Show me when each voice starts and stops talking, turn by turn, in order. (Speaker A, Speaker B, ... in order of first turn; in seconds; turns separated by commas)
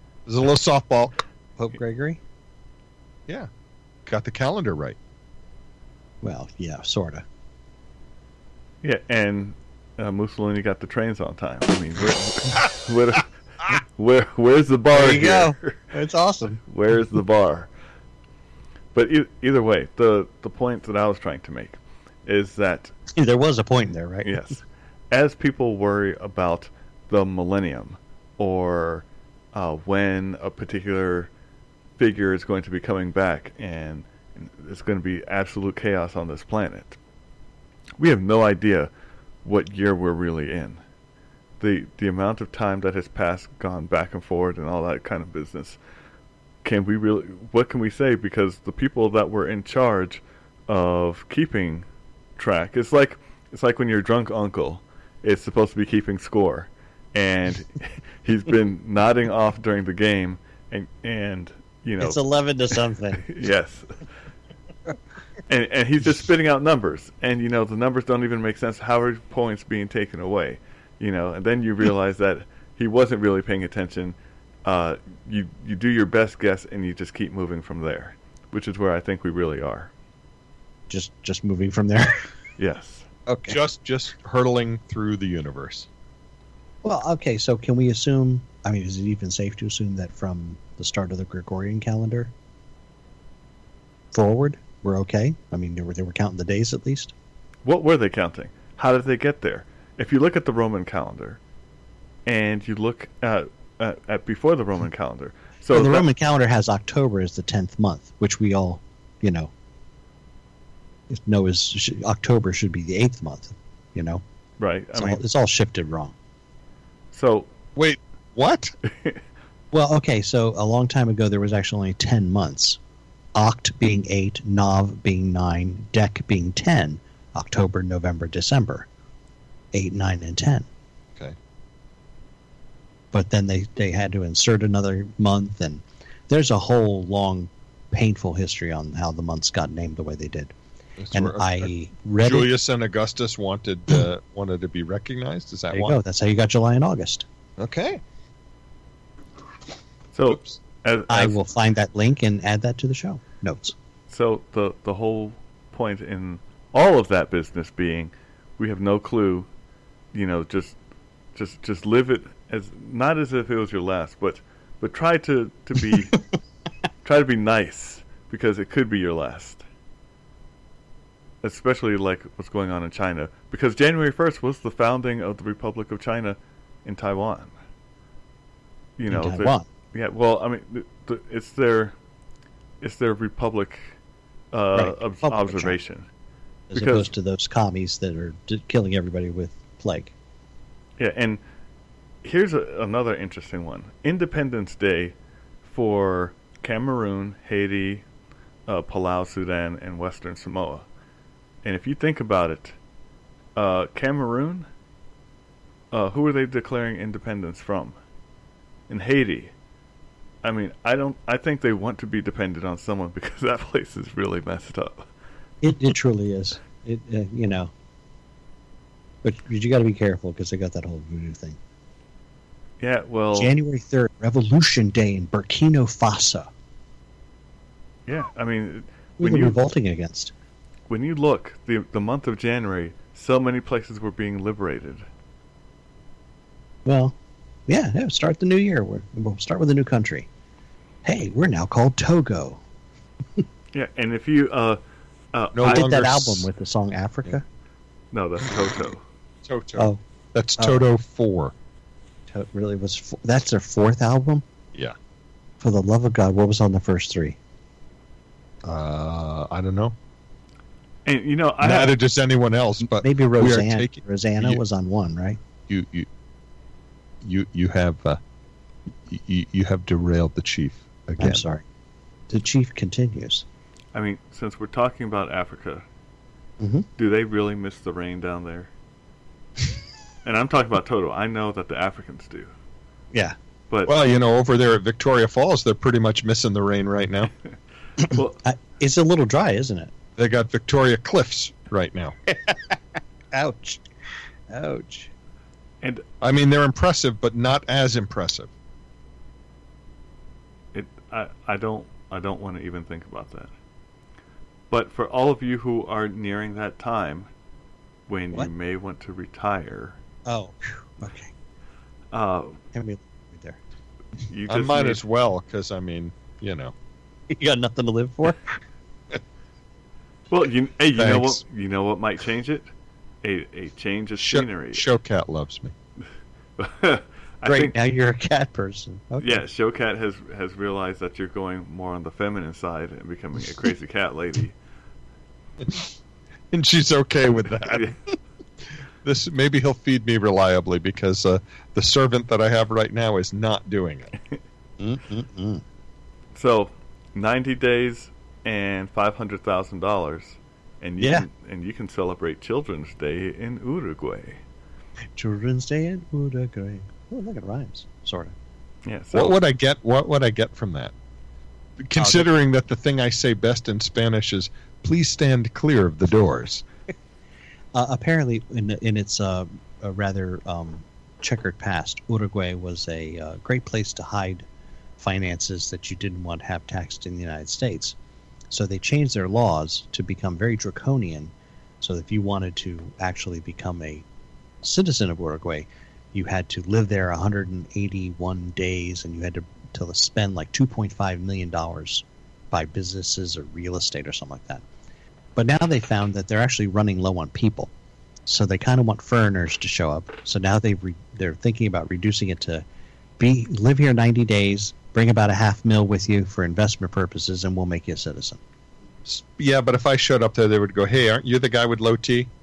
Speaker A: 0.3-1.2, Speaker B: 1.6-2.2, Speaker A: 4.1-5.0, Speaker B: 6.2-7.2, Speaker C: 8.8-15.8, Speaker B: 14.9-16.6, Speaker C: 16.7-17.7, Speaker C: 18.9-22.9, Speaker B: 23.1-24.4, Speaker C: 24.2-31.3, Speaker C: 32.0-37.0, Speaker C: 38.0-38.9, Speaker C: 39.4-40.8, Speaker C: 41.6-45.8, Speaker C: 46.6-51.9, Speaker C: 52.4-62.2, Speaker B: 62.0-63.3, Speaker C: 63.2-63.9, Speaker C: 65.5-79.9, Speaker B: 80.9-82.3, Speaker C: 82.6-83.1, Speaker B: 83.3-83.6, Speaker A: 83.5-85.9, Speaker B: 86.8-92.3, Speaker B: 94.1-97.1, Speaker C: 97.7-101.4, Speaker C: 102.3-106.1, Speaker B: 105.7-109.5, Speaker B: 111.1-114.2, Speaker C: 114.6-115.2, Speaker B: 115.0-116.2, Speaker C: 117.1-117.5, Speaker A: 117.8-118.7, Speaker B: 119.7-122.8, Speaker B: 123.3-128.9, Speaker B: 129.7-130.7, Speaker B: 133.1-140.5, Speaker A: 141.0-141.7, Speaker B: 141.1-142.5, Speaker A: 142.2-146.0, Speaker B: 145.7-147.3, Speaker A: 147.6-148.0, Speaker C: 150.1-151.4, Speaker B: 151.1-153.7, Speaker C: 154.1-159.5, Speaker C: 160.1-160.8, Speaker C: 161.3-166.2, Speaker C: 167.0-169.6, Speaker C: 171.4-177.5, Speaker C: 179.0-181.9, Speaker B: 179.1-179.7, Speaker C: 182.8-183.9, Speaker C: 184.5-186.1, Speaker B: 184.8-185.8, Speaker B: 186.7-190.1, Speaker C: 186.7-187.1, Speaker C: 191.0-191.4, Speaker C: 192.2-198.0, Speaker C: 198.7-200.8, Speaker C: 201.6-202.8, Speaker C: 203.6-204.7, Speaker C: 205.9-208.0, Speaker C: 208.9-209.5, Speaker C: 210.4-215.1, Speaker B: 215.6-217.7, Speaker B: 219.2-221.6, Speaker C: 222.8-223.5, Speaker B: 223.4-226.5, Speaker C: 228.1-229.6, Speaker B: 229.2-230.3, Speaker C: 230.9-235.1, Speaker B: 236.9-237.2, Speaker B: 237.7-240.3, Speaker B: 241.1-242.6, Speaker C: 243.7-244.8, Speaker C: 245.3-245.9, Speaker A: 245.6-246.5, Speaker B: 245.7-247.4, Speaker C: 248.1-249.0, Speaker A: 249.4-251.5, Speaker B: 250.6-250.8, Speaker B: 252.3-254.4, Speaker B: 255.6-257.4, Speaker A: 258.6-259.9, Speaker C: 261.1-262.0, Speaker A: 261.6-264.6, Speaker B: 262.9-265.4, Speaker A: 265.7-266.1, Speaker A: 267.2-268.2, Speaker A: 269.1-271.4, Speaker B: 271.2-271.6, Speaker B: 272.3-273.4, Speaker C: 273.9-275.9, Speaker B: 276.6-276.9, Speaker C: 277.0-278.7, Speaker C: 280.2-282.5, Speaker A: 283.9-287.3, Speaker B: 288.0-289.9, Speaker C: 288.1-288.4, Speaker A: 290.2-292.1, Speaker B: 292.3-292.8, Speaker B: 293.3-293.8, Speaker B: 294.5-295.1, Speaker A: 296.2-298.5, Speaker C: 300.7-303.5, Speaker C: 304.7-307.3, Speaker C: 308.1-310.0, Speaker B: 310.3-311.3, Speaker C: 312.1-312.6, Speaker B: 312.7-313.6, Speaker C: 314.2-315.0, Speaker A: 314.5-316.7, Speaker B: 317.3-318.6, Speaker C: 320.3-322.7, Speaker A: 321.0-321.4, Speaker C: 323.2-324.9, Speaker A: 324.2-325.7, Speaker C: 326.6-327.7, Speaker B: 327.4-329.4, Speaker C: 329.2-334.5, Speaker A: 335.6-335.9, Speaker A: 336.5-338.0, Speaker A: 339.0-344.1, Speaker B: 344.8-345.6, Speaker C: 346.3-354.4, Speaker B: 351.0-351.3, Speaker B: 355.2-358.3, Speaker C: 358.9-359.4, Speaker A: 359.1-360.9, Speaker A: 361.8-366.6, Speaker B: 362.0-362.3, Speaker B: 367.7-374.5, Speaker B: 375.0-378.0, Speaker B: 378.5-384.1, Speaker B: 384.6-394.6, Speaker B: 395.4-397.7, Speaker B: 398.3-402.6, Speaker B: 403.2-408.4, Speaker A: 409.1-412.3